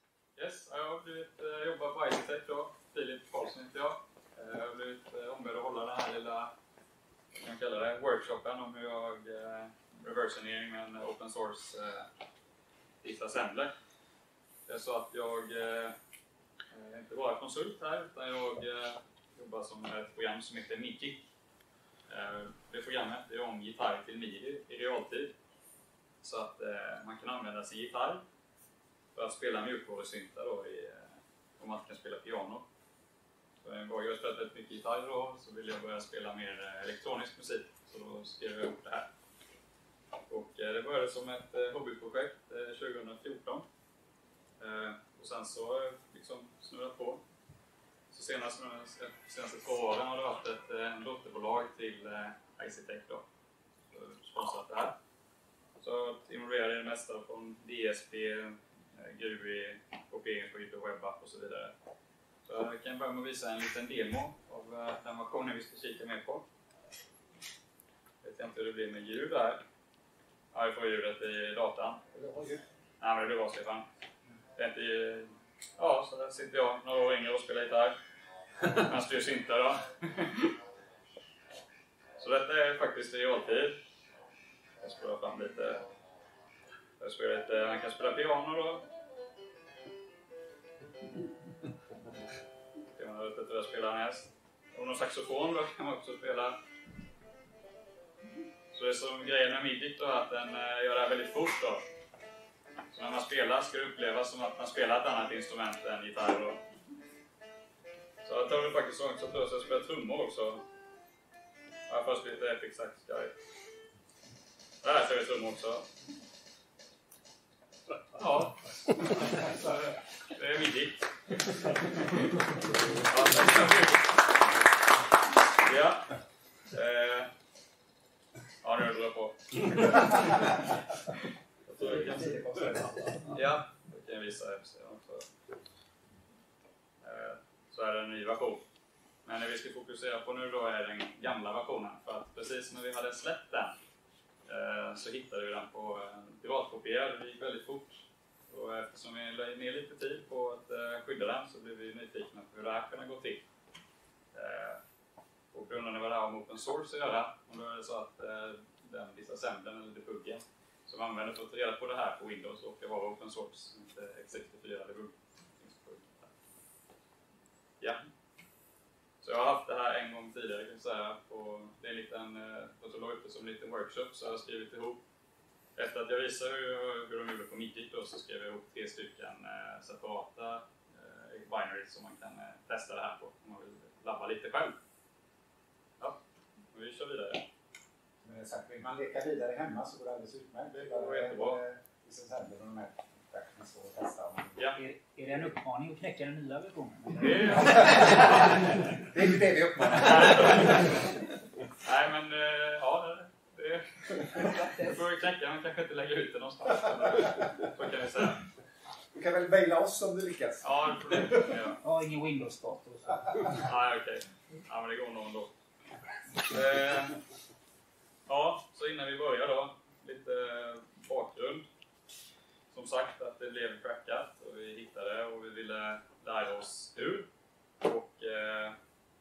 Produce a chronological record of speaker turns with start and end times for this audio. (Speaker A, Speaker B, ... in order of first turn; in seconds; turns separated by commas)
Speaker A: 0.4-6.5, Speaker A: 7.3-12.1, Speaker A: 13.0-13.7, Speaker A: 14.7-15.9, Speaker A: 16.7-21.3, Speaker A: 22.1-25.3, Speaker A: 26.2-28.2, Speaker A: 29.1-32.6, Speaker A: 33.6-39.1, Speaker A: 40.3-43.7, Speaker A: 44.6-47.2, Speaker A: 48.1-53.2, Speaker A: 53.9-55.0, Speaker A: 55.8-61.7, Speaker A: 62.4-66.4, Speaker A: 68.2-69.6, Speaker A: 70.5-72.0, Speaker B: 72.2-72.6, Speaker A: 73.0-73.9, Speaker A: 74.6-78.0, Speaker A: 78.6-80.5, Speaker A: 82.2-83.8, Speaker A: 84.8-85.9, Speaker A: 87.0-88.8, Speaker A: 92.9-96.6, Speaker A: 98.7-101.8, Speaker A: 102.9-106.6, Speaker A: 108.2-110.6, Speaker A: 111.9-113.3, Speaker A: 114.8-115.9, Speaker A: 118.1-122.4, Speaker A: 123.0-124.0, Speaker A: 125.6-127.3, Speaker A: 128.6-130.6, Speaker A: 131.7-132.4, Speaker B: 131.7-133.2, Speaker A: 133.3-135.3, Speaker A: 137.0-138.6, Speaker A: 139.2-143.7, Speaker A: 144.5-153.4, Speaker A: 154.3-154.8, Speaker A: 155.5-166.3, Speaker A: 169.2-175.0, Speaker A: 175.8-184.8, Speaker A: 186.7-187.4, Speaker B: 188.2-194.6, Speaker A: 190.7-191.6, Speaker C: 194.8-198.6, Speaker A: 197.2-198.5, Speaker B: 197.6-198.4, Speaker B: 199.0-200.8, Speaker A: 200.0-200.9, Speaker A: 201.8-208.4, Speaker B: 209.1-211.3, Speaker A: 210.6-211.8, Speaker C: 211.8-213.6, Speaker A: 213.6-215.5, Speaker A: 216.4-217.2, Speaker A: 218.3-221.7, Speaker A: 222.7-227.3, Speaker A: 227.8-228.8